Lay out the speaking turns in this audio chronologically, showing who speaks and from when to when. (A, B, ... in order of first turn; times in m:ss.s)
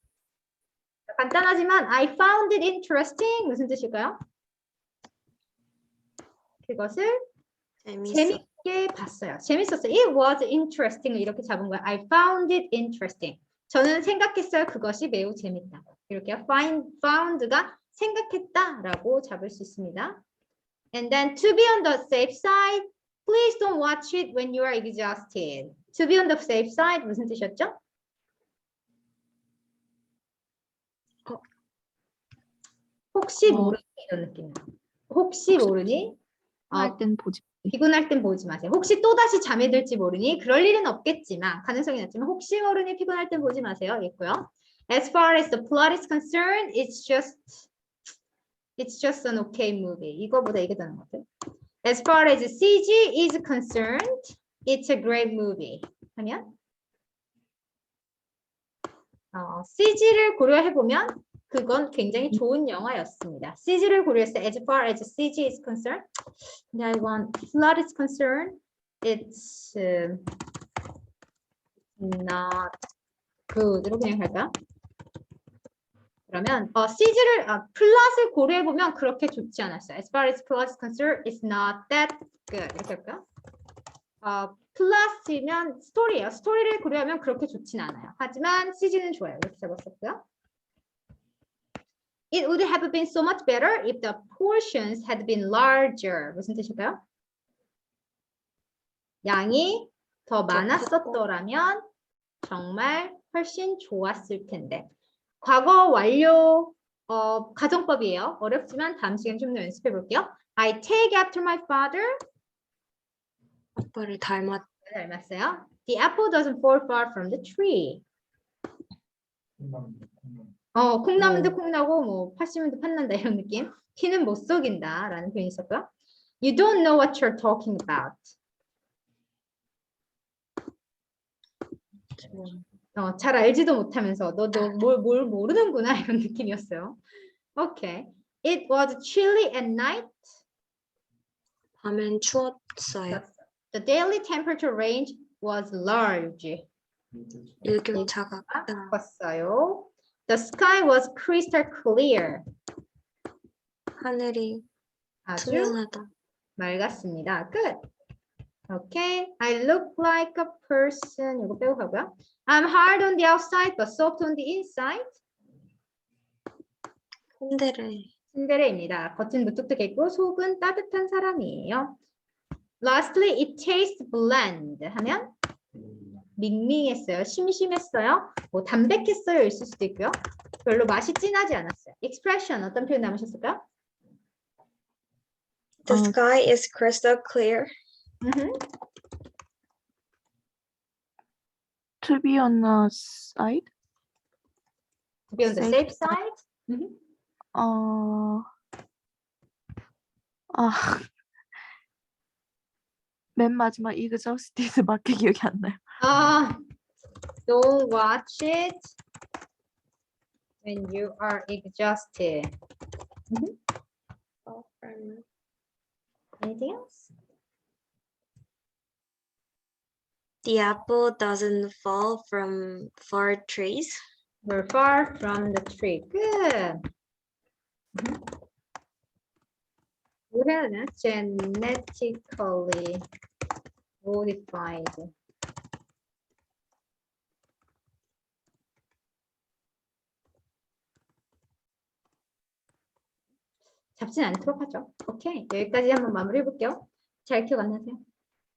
0:01.1-0:04.2 A
0:06.6-0:07.1 A
0:07.8-0:08.4 B
0:08.0-0:20.2 A
0:20.9-0:27.8 A
0:33.1-0:36.2 A
0:33.4-0:33.7 C
0:36.7-0:37.0 A
0:36.7-0:37.7 C
0:37.7-0:47.7 A
0:48.8-0:51.2 A
0:51.8-0:56.4 A
0:59.3-1:06.0 A
1:06.7-1:10.2 A
1:12.0-1:12.7 A
1:13.5-1:14.5 A
1:16.3-1:23.2 A
1:24.2-1:30.2 A
1:32.3-1:37.0 A
1:39.2-1:41.8 A
1:40.5-1:41.2 B
1:42.4-1:44.9 A
1:45.4-1:52.1 A
1:53.8-1:54.6 B
1:54.8-1:58.0 A
2:00.7-2:05.9 A
2:01.2-2:01.5 B
2:06.4-2:08.3 A
2:12.2-2:12.6 B
2:13.0-2:17.0 A
2:17.6-2:20.2 A
2:21.8-2:23.2 B
2:23.1-2:26.6 A
2:27.6-2:28.9 B
2:27.9-2:32.4 A
2:34.0-2:34.6 B
2:35.3-2:35.8 A
2:35.4-2:36.1 B
2:36.6-2:37.8 A
2:38.7-2:45.1 A
2:47.4-2:48.1 B
2:48.3-2:52.0 A
2:52.8-2:55.3 A
2:56.4-3:03.6 A
3:05.8-3:07.7 B
3:05.9-3:06.2 C
3:08.2-3:08.5 A
3:12.0-3:13.6 C
3:15.3-3:16.9 A
3:15.5-3:16.2 C
3:17.5-3:18.4 C
3:20.5-3:21.1 C
3:23.4-3:25.8 C
3:26.0-3:26.6 A
3:27.5-3:28.9 A
3:30.6-3:32.5 A
3:34.4-3:35.2 B
3:36.4-3:37.1 A
3:40.4-3:44.0 B
3:44.4-3:46.8 A
3:50.3-3:53.0 A
3:54.0-3:55.1 A
4:04.0-4:08.0 A